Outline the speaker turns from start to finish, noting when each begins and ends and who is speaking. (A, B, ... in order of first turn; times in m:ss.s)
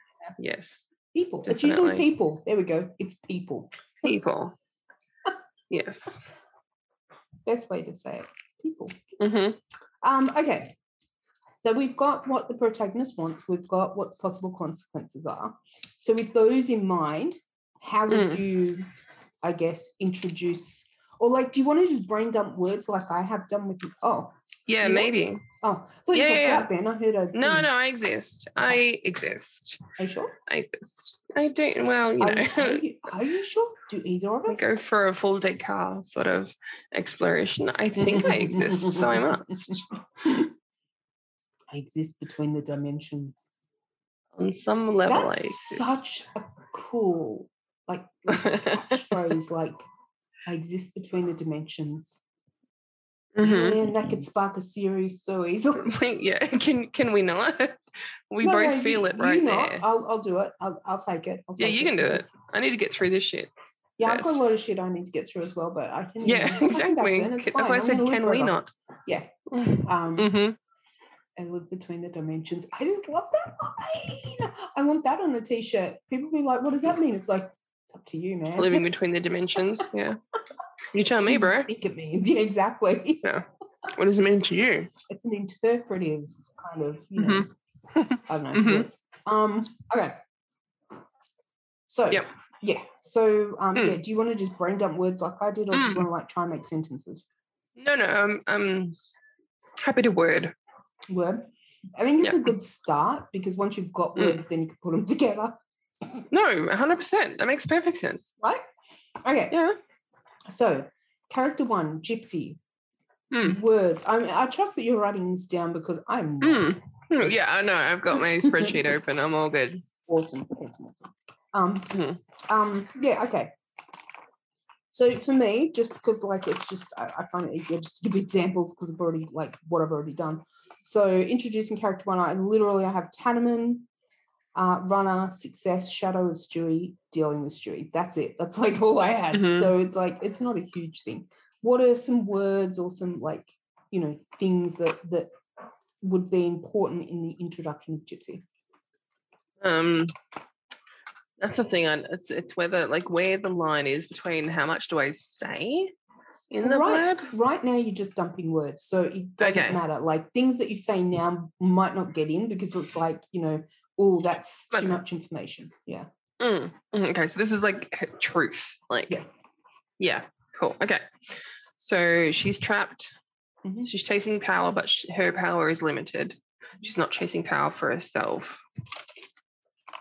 0:00.4-0:00.9 A
0:01.1-0:04.1 B
0:01.4-0:02.0 A
0:04.0-0:04.5 A
0:05.7-0:06.2 A
0:07.4-0:09.0 B
0:09.2-0:09.6 A
0:10.0-0:10.7 B
0:11.6-0:18.9 B
0:18.1-0:18.4 A
0:19.4-0:27.7 B
0:24.7-0:25.4 A
0:26.1-0:26.7 A
0:27.3-0:29.8 A
0:30.0-0:30.4 B
0:30.4-0:32.8 A
0:32.2-0:34.8 B
0:34.5-0:39.8 A
0:38.0-0:40.5 B
0:41.7-0:43.5 B
0:44.3-0:46.0 A
0:45.0-0:49.8 B
0:48.3-0:49.1 A
0:50.4-0:52.2 B
0:53.4-0:53.9 A
0:53.4-0:56.0 B
0:55.8-0:59.8 A
0:58.4-1:02.3 B
1:01.6-1:03.5 A
1:04.0-1:10.4 B
1:04.0-1:04.4 A
1:06.2-1:08.7 A
1:09.5-1:10.6 A
1:11.4-1:18.9 B
1:18.6-1:20.2 A
1:20.9-1:21.7 A
1:21.3-1:23.3 B
1:23.2-1:24.9 A
1:25.1-1:27.5 B
1:27.2-1:28.9 A
1:28.3-1:30.2 B
1:31.9-1:37.3 B
1:35.7-1:36.1 A
1:37.8-1:39.0 A
1:39.8-1:40.5 A
1:41.1-1:45.6 B
1:42.2-1:42.5 A
1:46.3-1:48.3 A
1:49.2-1:49.6 B
1:49.5-1:49.8 A
1:50.5-1:52.6 B
1:53.3-1:53.6 A
1:53.4-1:57.3 B
1:56.4-1:59.8 A
1:58.4-1:58.8 B
2:00.1-2:03.5 B
2:01.9-2:02.2 A
2:04.9-2:13.8 B
2:14.5-2:25.3 B
2:19.3-2:19.7 A
2:26.0-2:28.4 B
2:29.6-2:30.1 A
2:31.4-2:35.9 A
2:36.5-2:37.3 A
2:36.6-2:46.1 B
2:39.4-2:39.8 A
2:44.7-2:45.0 A
2:46.4-2:49.2 A
2:50.0-2:53.1 A
2:53.6-2:53.9 B
2:53.8-2:58.6 A